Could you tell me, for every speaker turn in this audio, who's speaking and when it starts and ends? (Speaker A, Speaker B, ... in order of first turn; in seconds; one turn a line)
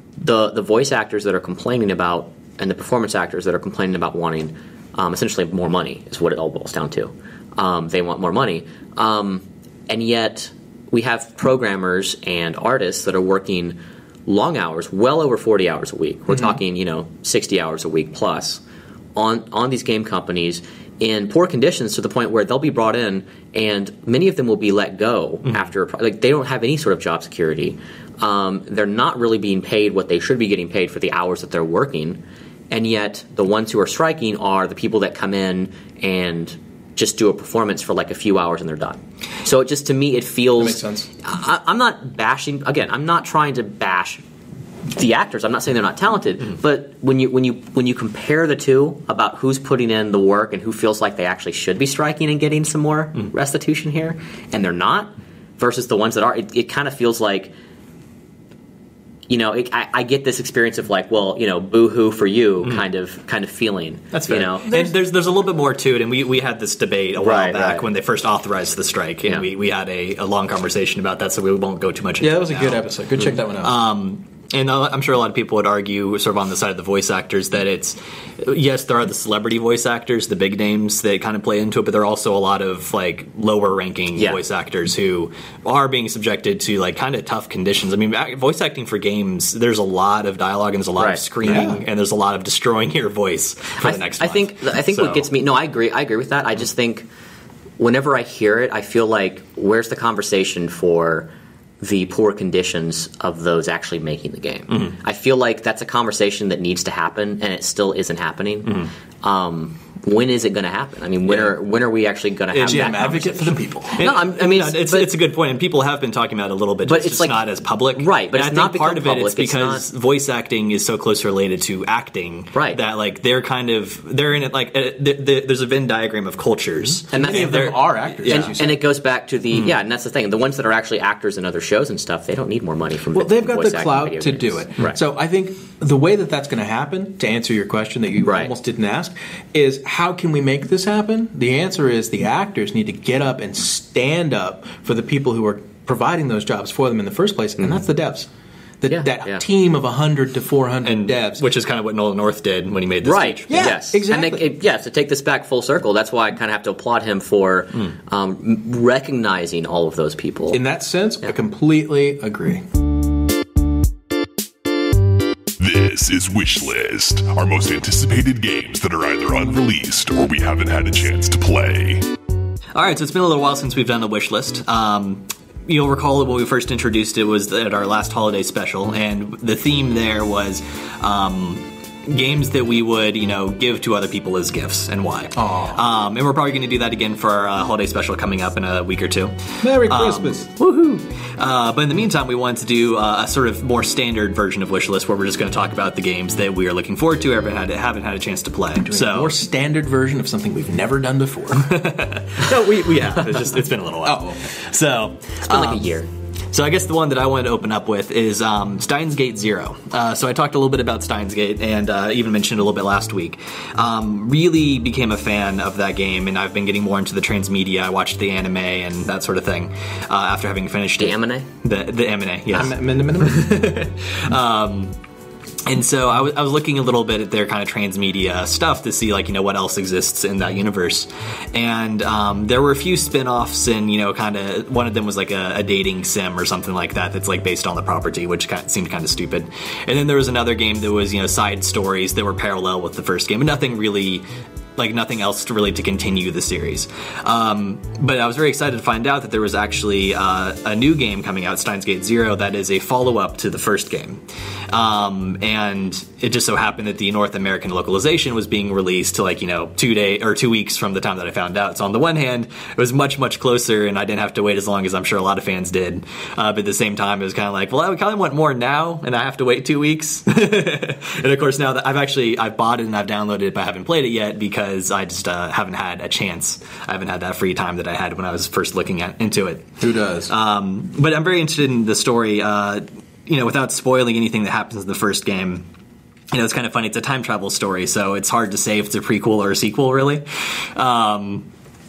Speaker A: 0.2-18.6
Speaker A: 19.2-44.2
Speaker B: 40.6-41.1
Speaker A: 44.9-57.5
Speaker A: 59.3-64.7
Speaker C: 64.1-72.9
Speaker B: 64.7-65.0
Speaker A: 67.2-67.9
Speaker B: 72.2-73.8
Speaker C: 73.4-95.3
Speaker B: 91.4-91.8
Speaker A: 93.8-97.1
Speaker A: 97.8-101.3
Speaker A: 101.8-115.1
Speaker C: 104.7-105.0
Speaker B: 112.5-114.0
Speaker C: 113.9-128.6
Speaker A: 116.9-117.4
Speaker A: 118.0-119.8
Speaker A: 122.5-122.8
Speaker A: 127.1-135.0
Speaker B: 127.1-128.8
Speaker B: 133.1-148.3
Speaker A: 138.2-138.5
Speaker B: 148.8-151.5
Speaker A: 148.9-149.4
Speaker C: 150.8-153.8
Speaker A: 153.0-160.6
Speaker B: 153.5-154.5
Speaker B: 160.5-162.7
Speaker D: 165.6-172.1
Speaker C: 172.8-199.4
Speaker B: 185.3-185.8
Speaker B: 189.6-190.5
Speaker B: 198.8-201.8
Speaker C: 201.6-205.9
Speaker B: 203.2-203.5
Speaker B: 204.0-204.4
Speaker A: 205.5-206.1
Speaker C: 206.5-225.0
Speaker A: 221.0-221.5
Speaker B: 222.5-223.8
Speaker C: 225.7-244.2
Speaker C: 244.8-285.6
Speaker B: 279.8-280.3
Speaker C: 286.3-291.5